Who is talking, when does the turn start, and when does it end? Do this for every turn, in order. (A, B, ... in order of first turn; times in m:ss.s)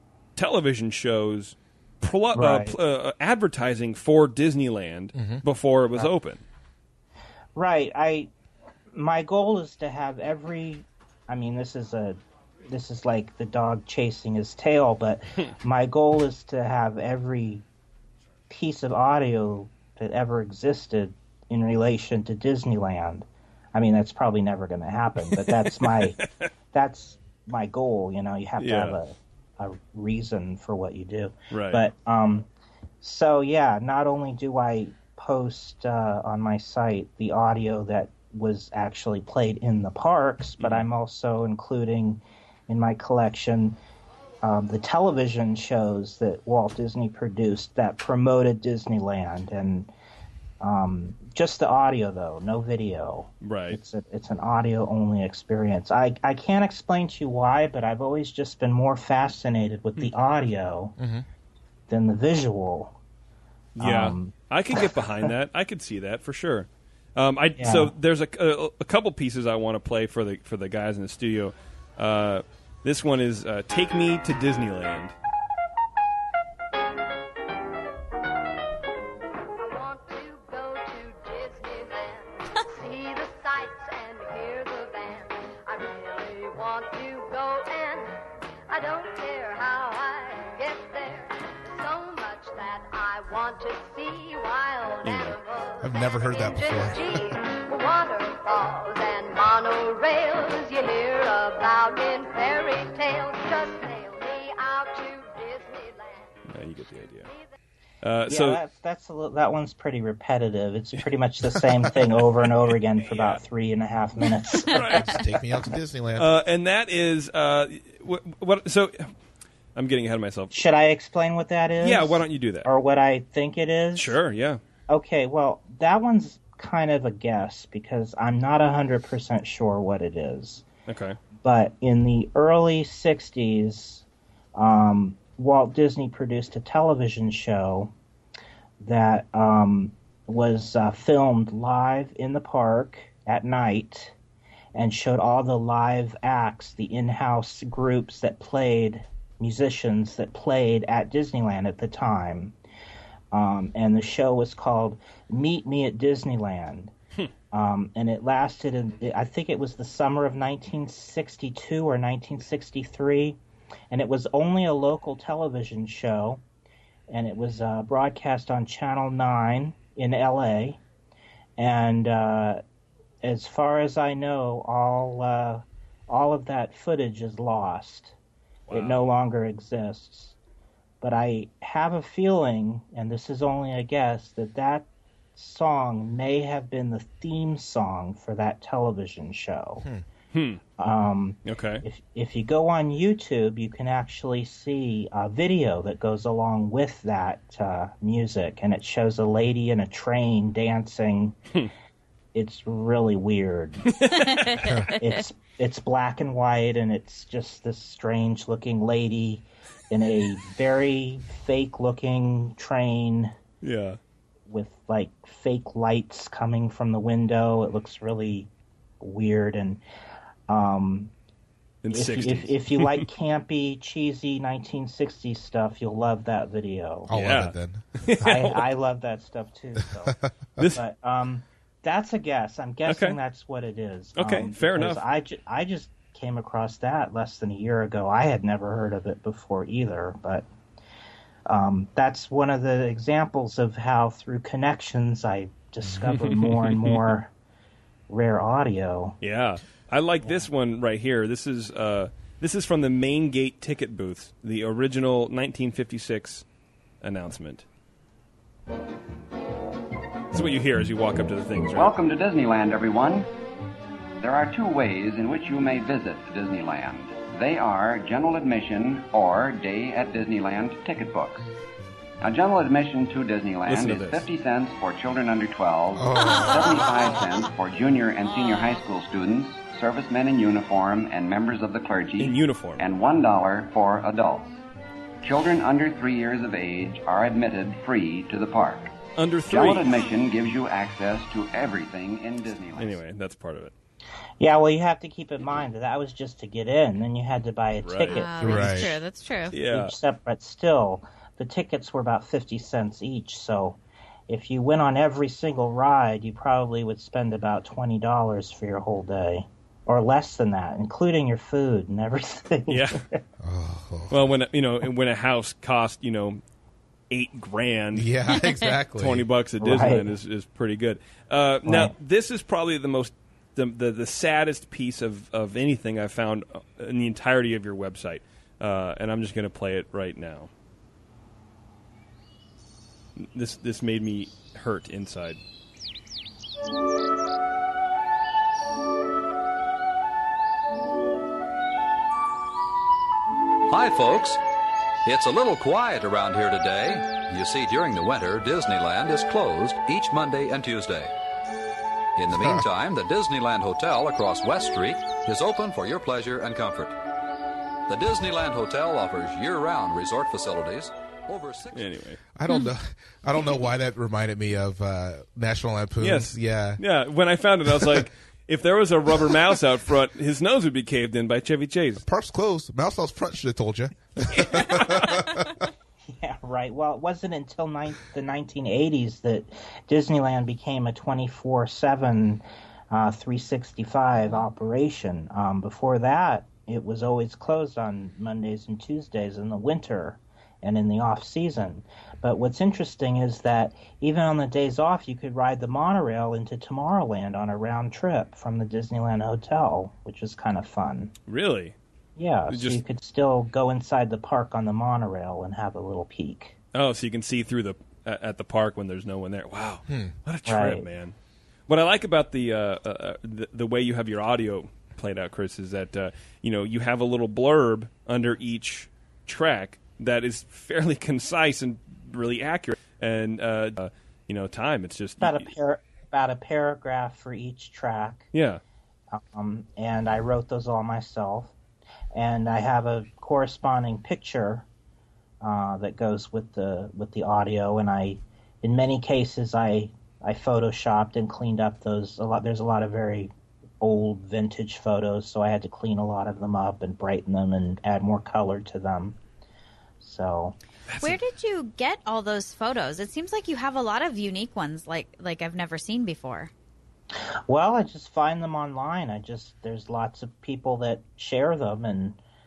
0:00.4-0:06.4 A
0:02.3-0:02.8 B
0:05.2-0:05.4 C
0:07.6-0:08.3 B
0:08.9-0:17.6 B
0:18.5-0:26.2 B
0:25.3-0:26.5 A
0:26.7-0:32.5 B
0:28.6-0:29.0 A
0:31.5-0:31.8 A
0:33.0-0:43.8 B
0:40.6-0:40.9 A
0:44.4-0:49.9 B
0:50.6-1:00.9 B
0:53.4-0:53.8 A
1:01.0-1:01.2 C
1:01.9-1:03.0 B
1:03.8-1:15.1 A
1:03.8-1:05.3 B
1:07.6-1:07.9 B
1:19.6-1:28.2 D
1:28.7-1:46.3 D
1:35.0-1:35.4 A
1:35.8-1:37.4 C
1:46.5-1:47.3 A
1:47.2-1:47.5 D
1:48.0-1:48.6 A
1:48.3-1:55.4 B
1:53.0-1:53.4 A
1:54.7-1:55.2 A
1:55.0-1:56.3 C
1:56.2-1:59.1 A
1:59.8-2:00.6 A
2:00.5-2:04.2 B
2:01.8-2:02.7 A
2:04.0-2:04.6 A
2:04.9-2:10.6 B
2:10.9-2:11.2 A
2:11.4-2:17.9 B
2:18.8-2:24.2 B
2:24.8-2:32.6 B
2:33.3-2:36.9 B
2:37.5-2:43.4 B
2:43.9-2:46.4 B
2:47.1-2:50.8 B
2:51.6-2:52.6 B
2:53.2-2:58.2 B
2:58.7-2:59.0 A
2:58.7-3:00.4 B
3:01.0-3:09.8 B
3:10.3-3:10.6 A
3:10.8-3:21.4 B
3:11.5-3:11.8 A
3:22.3-3:33.3 B
3:24.0-3:24.5 A
3:33.6-3:34.0 A
3:34.5-3:38.5 B
3:39.0-3:39.8 B
3:40.5-3:41.1 B
3:41.8-3:43.1 A
3:41.9-3:47.1 B
3:47.1-3:47.8 C
3:47.1-3:48.6 A
3:48.2-4:00.5 B
3:52.9-3:53.2 A
3:54.2-3:55.0 A
4:01.5-4:07.3 B
4:06.0-4:07.1 A
4:08.1-4:09.2 B
4:09.2-4:16.4 A
4:17.0-4:17.6 A
4:20.3-4:21.9 A
4:21.7-4:23.3 E
4:24.2-4:31.5 E
4:32.2-4:44.6 E
4:33.7-4:34.2 A
4:36.0-4:36.8 C
4:38.2-4:38.8 F
4:42.2-4:42.8 A
4:45.2-4:48.9 E
4:49.2-4:50.0 A
4:49.5-4:53.0 E
4:52.8-4:53.7 A
4:54.4-4:58.9 B
4:57.8-4:58.2 A
4:58.1-4:59.6 F
4:58.4-4:58.9 C
4:59.5-5:00.0 A
4:59.7-5:13.2 B
5:12.7-5:13.0 A
5:13.4-5:14.2 C
5:14.1-5:16.4 A
5:17.1-5:18.1 A
5:17.9-5:19.3 C
5:19.0-5:30.5 A
5:19.6-5:20.1 B
5:21.6-5:22.0 B
5:33.2-5:35.4 A
5:43.7-5:44.4 G
5:45.0-5:51.1 G
5:52.2-5:57.0 G
5:52.4-5:52.6 C
5:57.9-6:01.9 G
6:01.7-6:02.2 A
6:02.4-6:06.8 C
6:06.0-6:12.0 A
6:12.0-6:15.5 C
6:14.3-6:14.9 A
6:16.2-6:41.1 B
6:41.3-6:41.8 A
6:42.2-6:46.6 B
6:42.5-6:42.8 A
6:46.7-6:51.2 A
6:50.5-6:50.9 B
6:51.7-7:05.5 A
7:05.2-7:08.3 B
7:08.3-7:08.6 A
7:09.1-7:11.5 B
7:12.1-7:14.7 B
7:15.4-7:29.2 B
7:30.0-7:30.6 B
7:30.9-7:31.2 A
7:31.0-7:36.5 F
7:37.5-7:42.2 B